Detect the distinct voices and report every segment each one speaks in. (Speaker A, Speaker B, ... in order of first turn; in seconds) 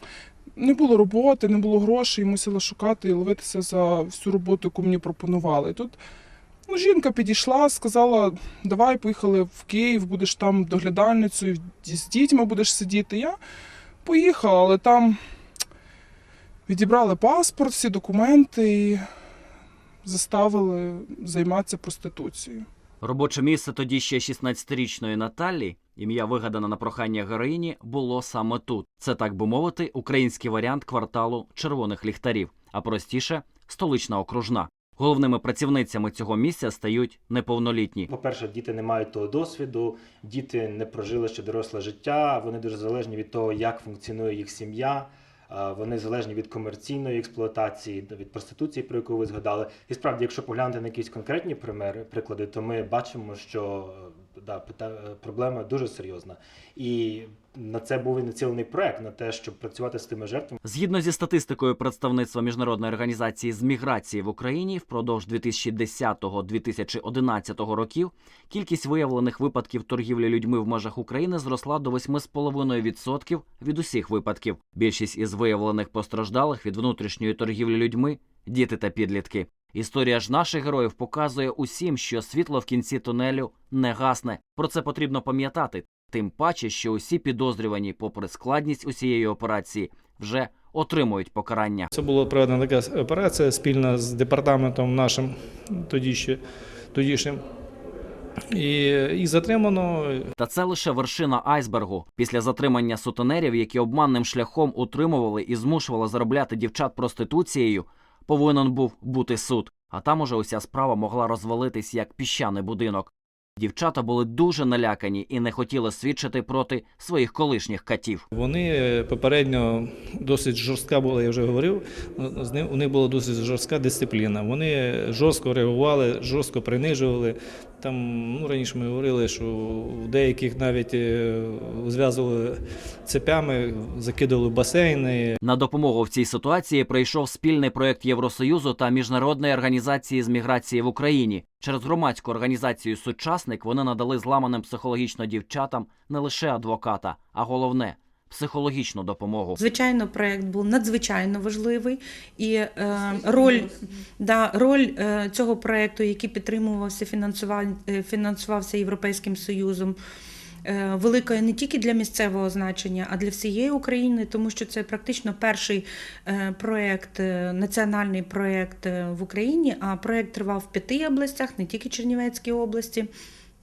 Speaker A: 0.6-6.0, 6.7-13.4, 14.0-15.1, 16.7-19.0, 20.0-22.6
Speaker B: 23.0-38.1, 60.6-91.9, 100.4-118.2, 135.4-149.6
Speaker C: 38.1-60.6
Speaker D: 91.9-96.4, 96.9-97.4, 98.5-100.3, 118.3-135.4
Speaker E: 149.6-160.0, 160.7-173.1